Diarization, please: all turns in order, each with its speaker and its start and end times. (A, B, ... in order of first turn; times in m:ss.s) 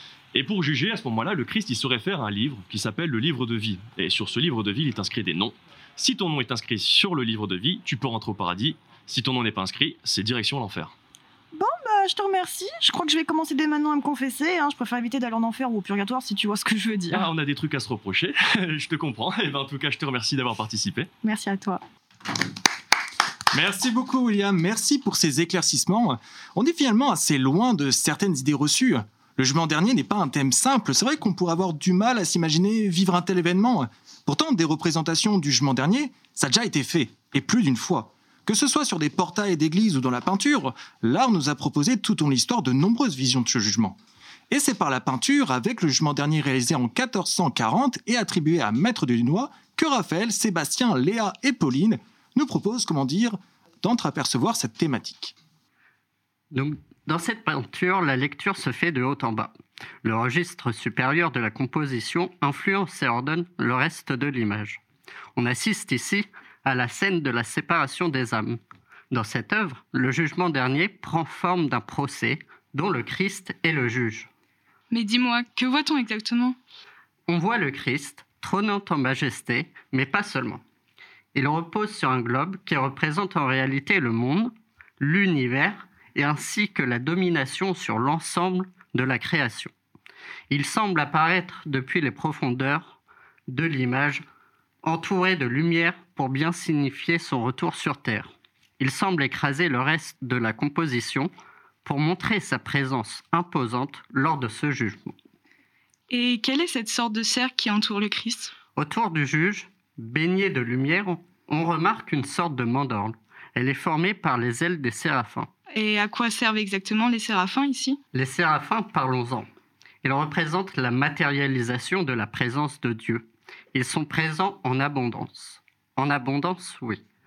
0:00.3-0:10.9 A
0:11.5-0:17.3 B
0:17.1-0:21.1 A
0:21.2-0:21.8 B
0:23.5-0:44.0 C
0:44.5-0:55.3 C
0:56.5-0:59.5 D
1:00.0-1:04.8 D
1:05.4-1:08.6 D
1:09.1-1:14.3 D
1:14.9-1:16.6 E
1:17.3-1:20.6 D
1:21.3-1:29.7 D
1:30.5-1:33.0 D
1:33.5-1:34.2 D
1:34.8-1:41.3 D
1:41.8-1:45.1 D
1:46.1-1:48.5 E
1:48.8-1:55.5 D
1:55.7-1:58.0 E
1:58.1-1:59.5 D
2:00.0-2:07.0 D